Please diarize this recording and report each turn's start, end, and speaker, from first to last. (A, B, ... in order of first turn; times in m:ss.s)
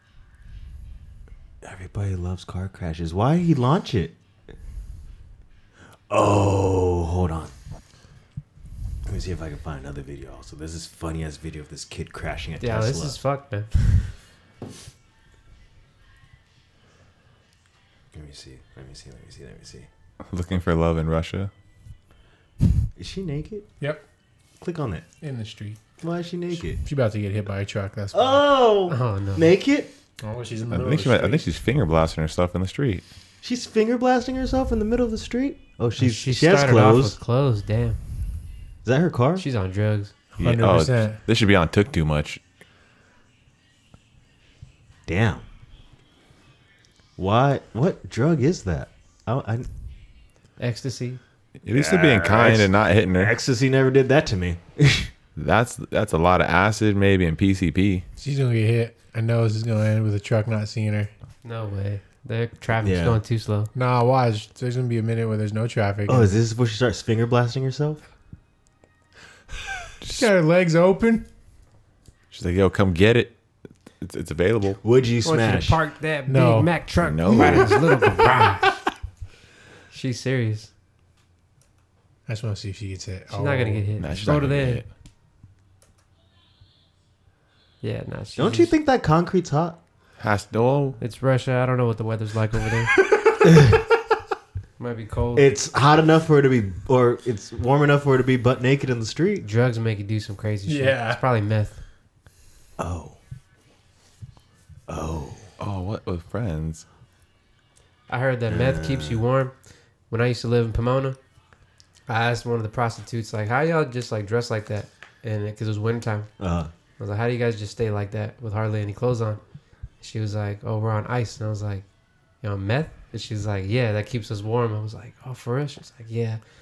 0:01.6-0:04.2 A
0:06.1-0:07.5 A
0:09.0-0:13.2 A
0:12.6-0:14.1 B
0:18.1-0:19.9 A
0:20.3-0:21.5 C
0:23.0-0:23.7 A
0:24.6-0:25.1 A
0:25.2-0:25.8 D
0:26.0-0:26.8 A
0:26.8-0:28.4 D
0:28.1-0:29.9 A
0:28.9-0:29.5 B
0:30.2-0:31.4 D
0:30.7-0:33.0 C
0:33.4-0:37.2 A
0:36.0-0:38.0 B
0:38.8-0:39.4 A
0:39.4-0:40.1 B
0:40.4-0:41.2 D
0:40.4-0:42.4 C
0:45.1-0:45.4 A
0:47.2-0:49.7 A
0:50.6-0:51.2 B
0:51.6-0:53.3 C
0:51.7-0:55.1 A
0:55.4-0:58.0 C
0:58.2-1:01.1 D
1:01.4-1:03.7 B
1:02.8-1:03.2 A
1:03.8-1:06.3 D
1:06.1-1:08.0 A
1:10.2-1:11.2 D
1:12.3-1:13.3 C
1:14.0-1:14.8 C
1:14.8-1:15.8 A
1:15.2-1:18.8 B
1:16.3-1:16.7 D
1:17.0-1:17.7 C
1:17.3-1:17.7 D
1:19.9-1:20.7 B
1:22.3-1:23.9 D
1:23.3-1:24.8 B
1:24.0-1:24.9 C
1:27.8-1:28.7 B
1:28.4-1:29.8 A
1:30.2-1:31.0 C
1:31.0-1:32.9 B
1:33.0-1:33.7 D
1:33.4-1:33.8 A
1:34.8-1:35.5 B
1:35.4-1:39.4 A
1:39.4-1:41.8 B
1:40.7-1:41.2 D
1:42.8-1:43.2 A
1:44.9-1:45.5 A
1:45.6-1:46.8 C
1:48.1-1:49.5 B
1:48.5-1:49.2 A
1:50.1-1:51.2 B
1:52.1-1:56.3 B
1:56.4-1:56.7 A
1:57.0-1:59.4 B
2:00.0-2:01.9 B
2:02.4-2:06.4 B